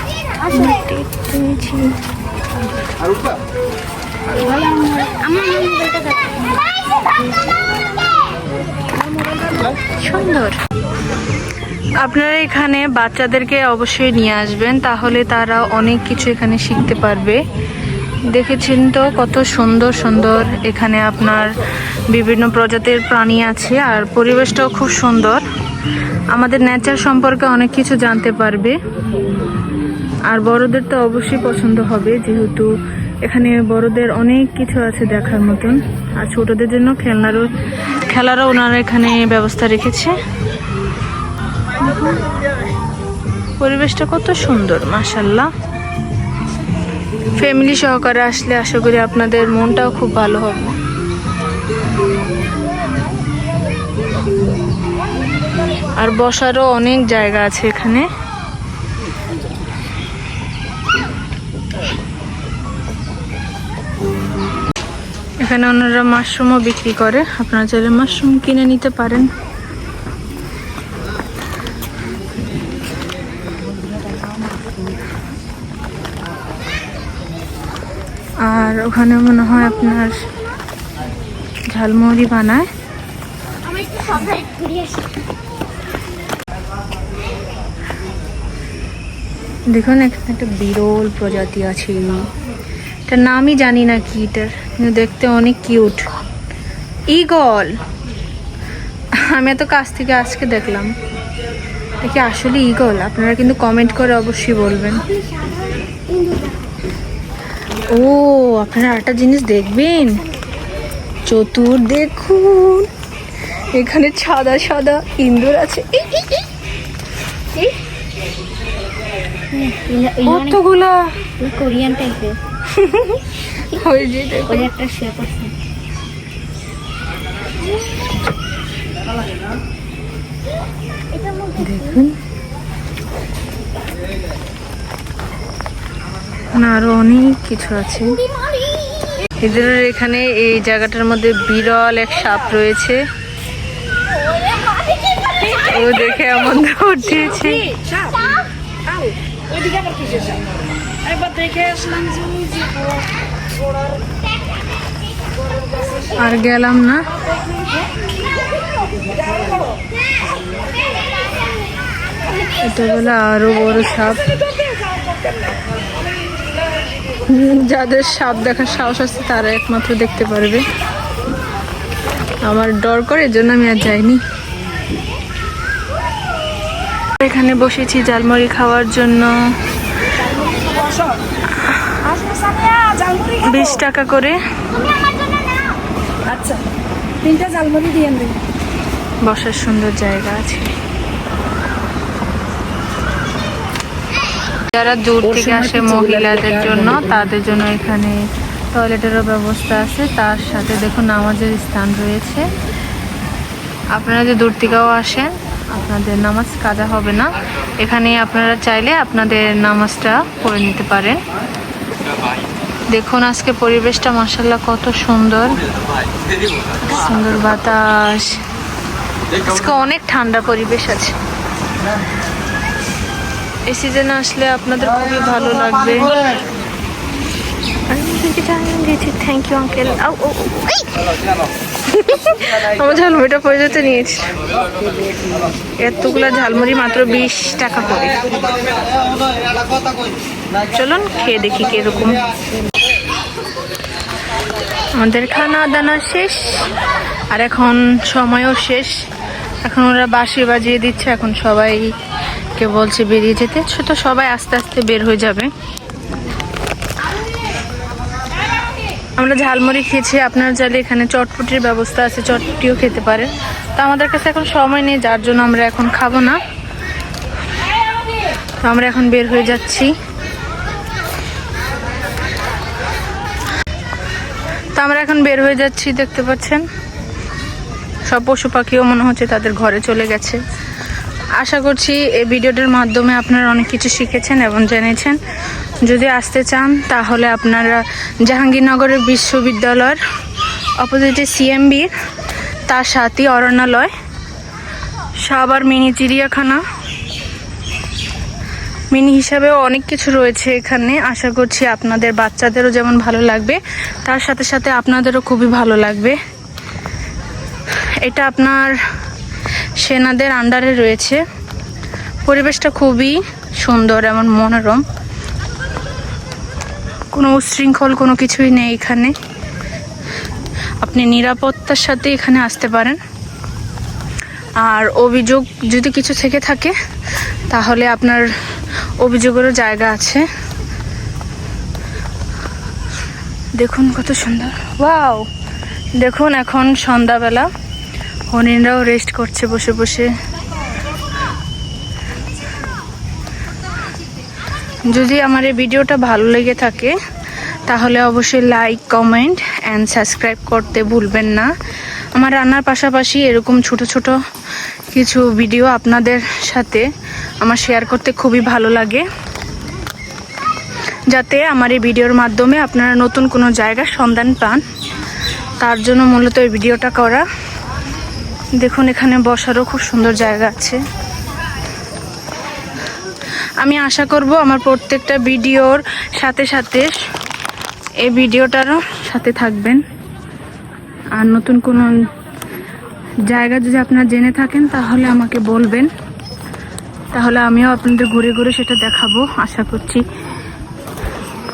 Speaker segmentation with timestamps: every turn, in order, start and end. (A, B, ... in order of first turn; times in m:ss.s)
0:00.4-0:02.0 A
0:04.3-0:05.8 B
0:05.4-0:06.0 C
0:09.8-0:10.6 A
0:12.0-0:17.4 A
0:18.2-0:21.6 A
0:22.1-0:25.4 A
0:26.3-0:28.8 A
0:30.3-0:32.7 A
0:33.2-0:40.2 A
0:43.6-0:45.5 A
0:47.4-0:50.8 A
0:56.0-0:58.1 A
1:05.4-1:09.3 A
1:13.6-1:15.0 B
1:18.4-1:20.2 A
1:21.7-1:22.7 A
1:24.2-1:24.9 C
1:29.7-1:32.3 A
1:33.1-1:36.1 A
1:37.1-1:37.7 A
1:39.2-1:40.9 A
1:42.0-1:45.0 A
1:47.9-1:50.2 A
1:51.3-1:52.9 A
1:53.7-1:56.4 A
1:59.5-2:00.6 C
2:00.2-2:01.3 A
2:01.4-2:02.4 C
2:02.7-2:04.7 A
2:04.5-2:05.5 C
2:11.6-2:12.2 A
2:16.5-2:18.2 A
2:19.4-2:23.0 A
2:25.6-2:27.7 A
2:27.7-2:33.0 B
2:36.2-2:37.1 A
2:39.0-2:39.6 B
2:42.6-2:44.3 A
2:47.3-2:50.6 A
2:52.4-2:54.2 A
2:57.2-2:59.3 A
3:00.2-3:01.2 B
3:01.9-3:03.8 B
3:03.4-3:04.4 A
3:06.3-3:06.6 B
3:07.2-3:08.4 B
3:09.2-3:10.7 A
3:14.7-3:18.2 A
3:15.2-3:17.4 B
3:18.7-3:22.5 A
3:23.9-3:31.2 A
3:32.9-3:35.6 A
3:36.8-3:38.4 A
3:39.4-3:41.1 A
3:43.7-3:46.2 A
3:47.9-3:50.9 A
3:51.9-3:54.3 A
3:55.1-3:55.3 B
3:55.8-3:58.3 A
4:00.7-4:02.2 A
4:05.0-4:06.7 A
4:07.3-4:08.9 A
4:09.6-4:11.9 A
4:12.6-4:15.5 A
4:19.2-4:26.4 A
4:28.6-4:29.9 A
4:34.7-4:36.7 A
4:38.1-4:40.4 A
4:41.4-4:45.2 A
4:45.8-4:50.0 A
4:50.8-4:51.9 A
4:52.7-4:53.9 A
4:55.2-4:56.6 A
4:58.9-5:06.2 A
5:08.0-5:08.8 A
5:09.8-5:11.2 A
5:12.3-5:14.8 A
5:17.1-5:19.1 A
5:20.8-5:23.0 A
5:24.6-5:26.7 A
5:27.5-5:28.3 A
5:29.0-5:30.3 A
5:33.6-5:35.2 A
5:36.0-5:37.5 A
5:38.3-5:40.1 A
5:44.9-5:47.0 A
5:47.7-5:51.5 A
5:52.2-5:54.2 A
5:54.9-5:56.9 A
5:57.4-5:59.0 A
6:01.1-6:04.6 A
6:05.6-6:07.3 A
6:08.6-6:10.8 A
6:13.6-6:17.0 A
6:18.0-6:19.8 A
6:21.2-6:22.0 A
6:23.3-6:25.9 A
6:27.1-6:30.0 A